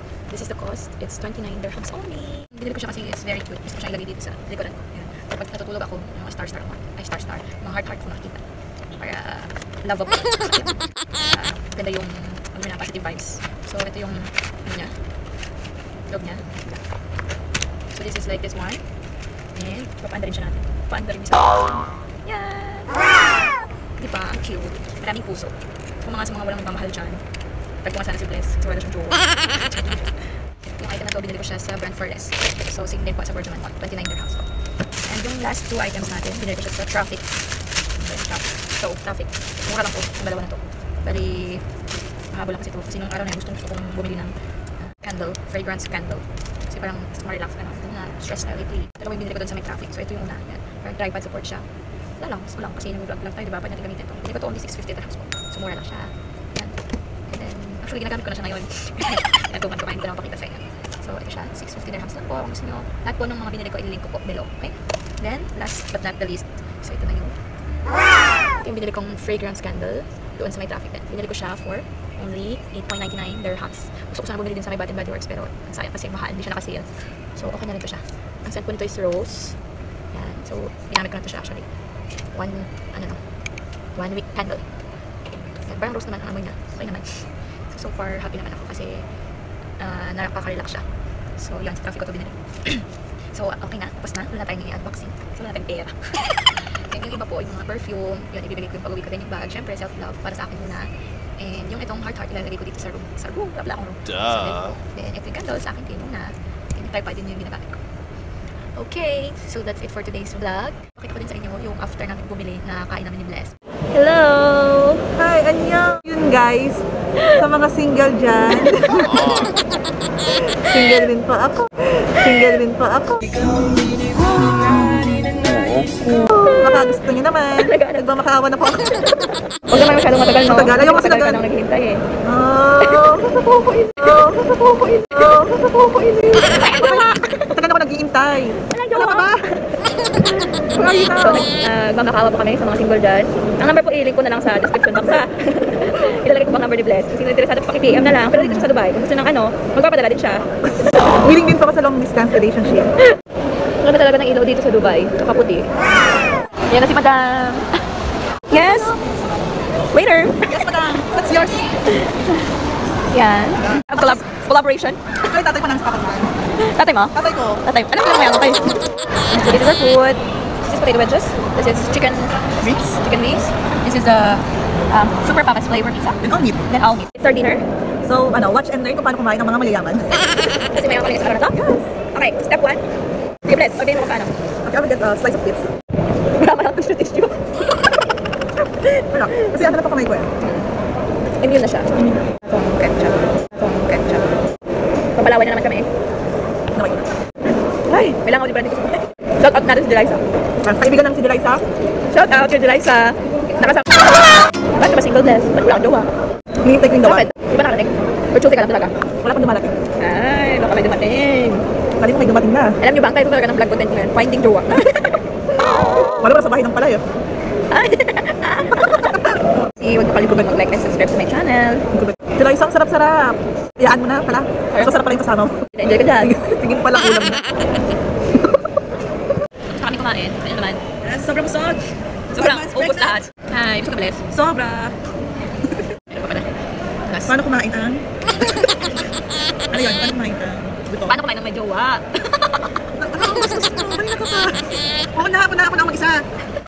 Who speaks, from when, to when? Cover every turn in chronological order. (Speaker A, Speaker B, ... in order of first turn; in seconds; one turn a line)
Speaker A: 0.3-8.4
Speaker A: 8.9-14.9
Speaker A: 16.1-16.8
Speaker A: 17.9-18.8
Speaker A: 19.5-23.1
Speaker A: 24.0-27.2
Speaker A: 27.8-34.5
Speaker A: 35.0-41.7
Speaker A: 42.3-51.6
Speaker A: 52.2-56.8
Speaker A: 57.3-67.4
Speaker A: 68.5-79.6
Speaker A: 80.1-81.7
Speaker A: 82.3-83.2
Speaker A: 83.9-84.7
Speaker A: 85.6-89.1
Speaker A: 89.8-107.8
Speaker A: 108.8-115.0
Speaker B: 115.2-116.8
Speaker A: 117.2-117.4
Speaker B: 117.3-119.2
Speaker A: 118.6-119.5
Speaker B: 120.7-123.4
Speaker A: 126.2-127.0
Speaker B: 126.5-128.9
Speaker A: 127.5-132.1
Speaker B: 130.5-131.4
Speaker B: 132.2-133.3
Speaker A: 132.8-137.5
Speaker B: 134.0-134.3
Speaker B: 135.3-135.7
Speaker B: 136.4-139.4
Speaker A: 138.6-151.1
Speaker B: 140.7-141.5
Speaker B: 148.4-148.6
Speaker B: 151.2-152.9
Speaker A: 153.8-155.8
Speaker A: 156.7-157.7
Speaker A: 158.5-159.0
Speaker A: 159.9-160.7
Speaker B: 160.5-161.6
Speaker A: 161.8-162.4
Speaker A: 163.1-165.0
Speaker B: 165.2-166.3
Speaker A: 166.6-177.6
Speaker B: 167.2-167.6
Speaker B: 176.2-176.6
Speaker B: 178.0-180.1
Speaker A: 180.1-181.6
Speaker B: 181.5-181.9
Speaker A: 182.1-182.8
Speaker A: 183.4-184.3
Speaker B: 184.6-185.7
Speaker A: 186.2-187.9
Speaker A: 188.6-189.7
Speaker B: 189.1-190.3
Speaker A: 190.4-190.7
Speaker A: 191.4-191.9
Speaker A: 192.5-194.4
Speaker A: 195.1-195.9
Speaker B: 196.7-197.1
Speaker A: 197.9-200.3
Speaker B: 200.6-201.6
Speaker A: 202.1-206.1
Speaker B: 206.6-207.3
Speaker A: 207.0-209.0
Speaker B: 209.2-209.7
Speaker A: 210.0-211.7
Speaker B: 212.0-212.8
Speaker A: 212.8-215.2
Speaker B: 216.2-217.0
Speaker A: 217.7-221.9
Speaker B: 222.0-225.6
Speaker A: 224.7-225.0
Speaker A: 225.7-226.8
Speaker B: 226.6-227.6
Speaker A: 229.7-230.9
Speaker B: 231.0-231.8
Speaker A: 232.3-234.4
Speaker B: 232.3-233.2
Speaker B: 234.3-234.9
Speaker A: 235.7-237.4
Speaker B: 237.3-238.7
Speaker A: 238.4-239.1
Speaker B: 239.7-241.2
Speaker A: 241.0-242.7
Speaker B: 242.9-246.2